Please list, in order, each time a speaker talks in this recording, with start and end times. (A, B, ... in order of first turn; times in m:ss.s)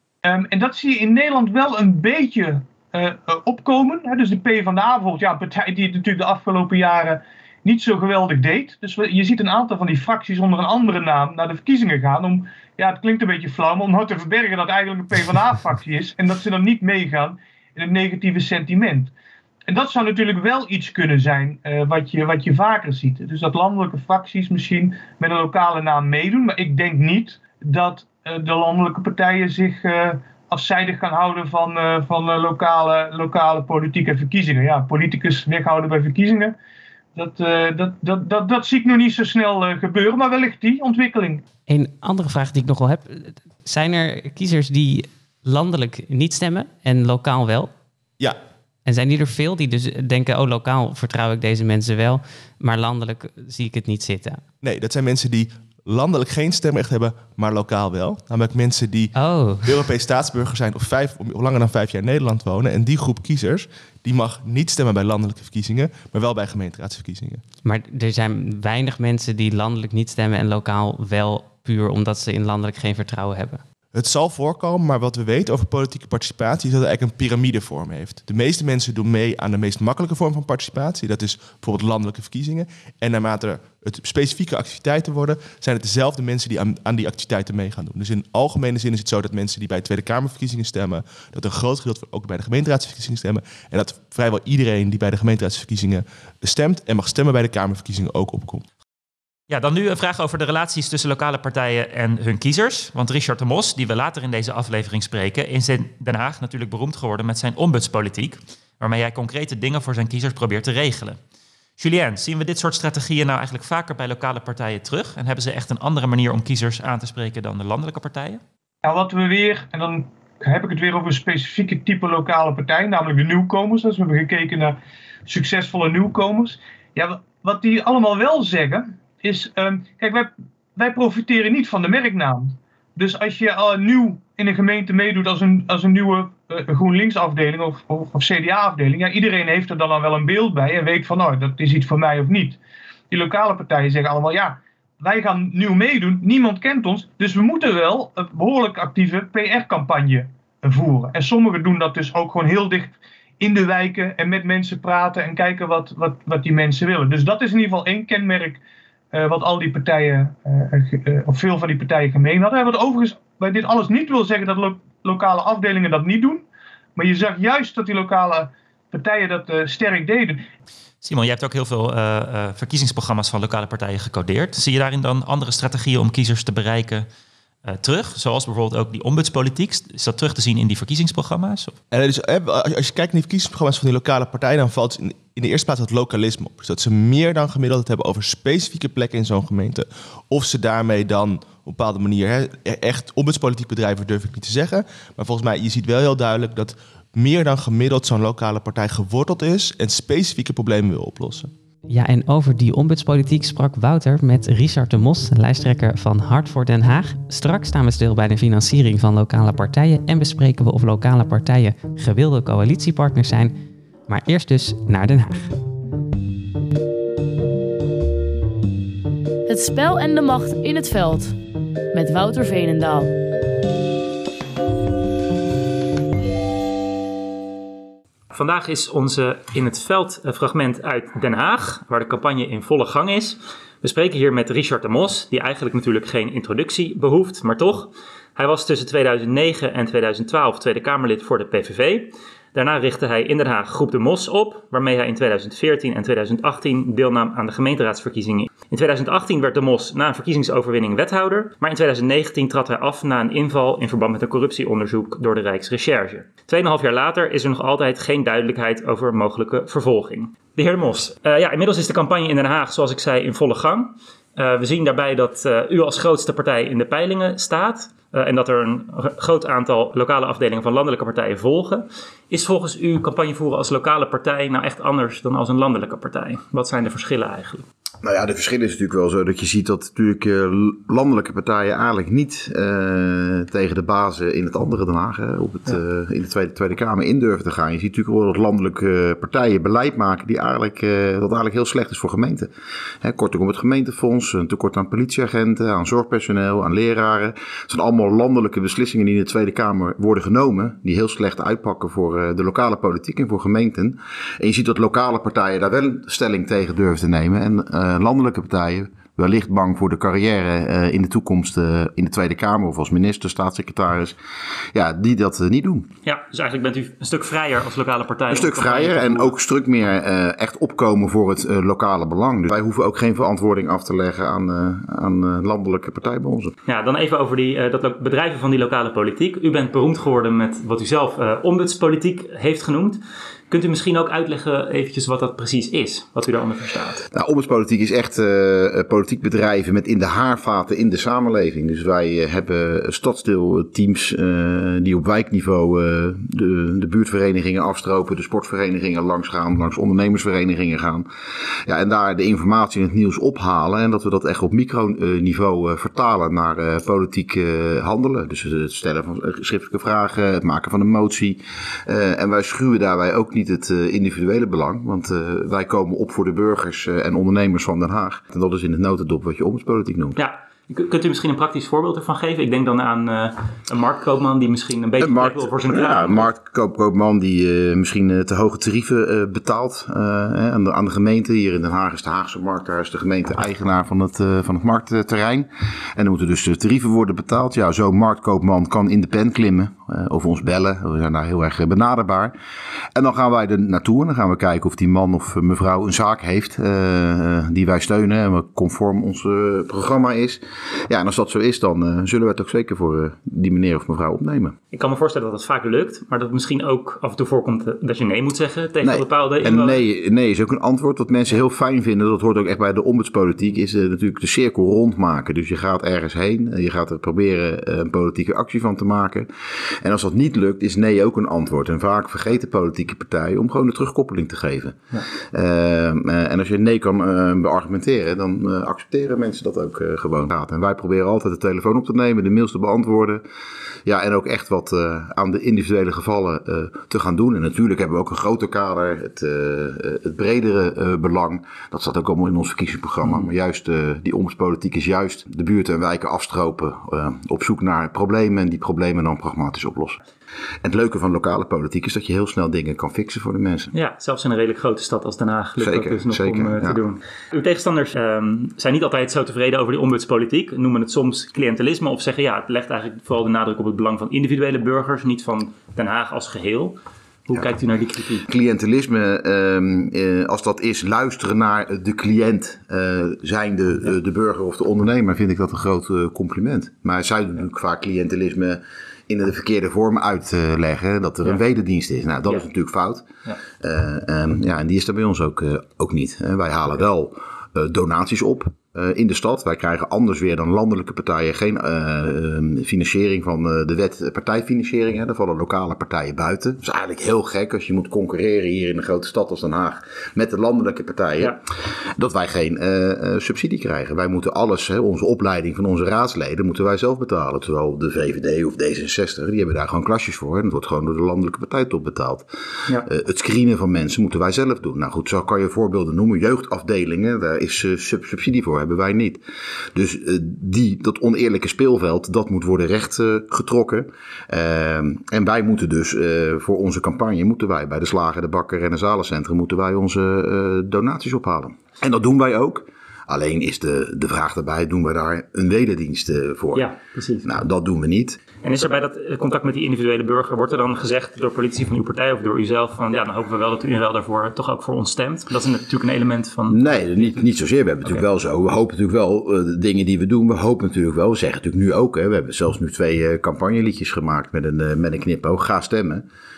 0:00.2-0:19.1 A
0:19.7-0:36.5 A
0:37.2-0:41.4 A
0:41.7-0:47.7 B
0:48.9-0:54.4 B
0:54.6-1:07.4 C
0:59.2-0:59.8 B
1:07.6-1:13.6 B
1:13.9-1:38.6 C
1:39.5-1:51.2 D
1:51.8-1:58.4 D
1:58.8-2:22.6 A
2:23.1-2:38.6 A
2:39.1-2:46.4 A
2:47.0-2:50.4 A
2:51.0-2:57.1 D
2:57.6-3:01.8 D
3:01.9-3:21.5 C
3:21.9-3:33.6 B
3:34.1-3:35.5 B
3:39.5-3:41.4 E
3:41.9-3:43.1 E
3:48.3-4:37.6 D
4:38.0-4:52.5 F
4:53.0-5:14.2 F
5:14.7-5:15.9 F
5:16.0-5:19.3 D
5:18.3-5:26.5 F
5:26.6-5:33.0 D
5:33.5-5:37.0 D
5:37.1-5:51.1 F
5:51.6-6:10.2 F
6:10.2-6:16.3 D
6:15.0-6:32.3 F
6:32.9-6:44.6 F
6:44.7-6:49.8 D
6:48.8-6:59.3 F
6:59.8-7:04.8 F
7:05.3-7:13.2 F
7:13.8-7:30.0 F
7:30.6-7:33.7 F
7:33.7-7:48.2 D
7:35.6-7:36.8 F
7:48.2-8:03.0 F
8:03.6-8:21.4 F
8:22.0-8:39.2 F
8:39.7-8:56.7 F
8:56.6-8:57.3 D
8:57.2-8:58.2 F
8:58.4-9:07.2 D
9:06.5-9:16.0 F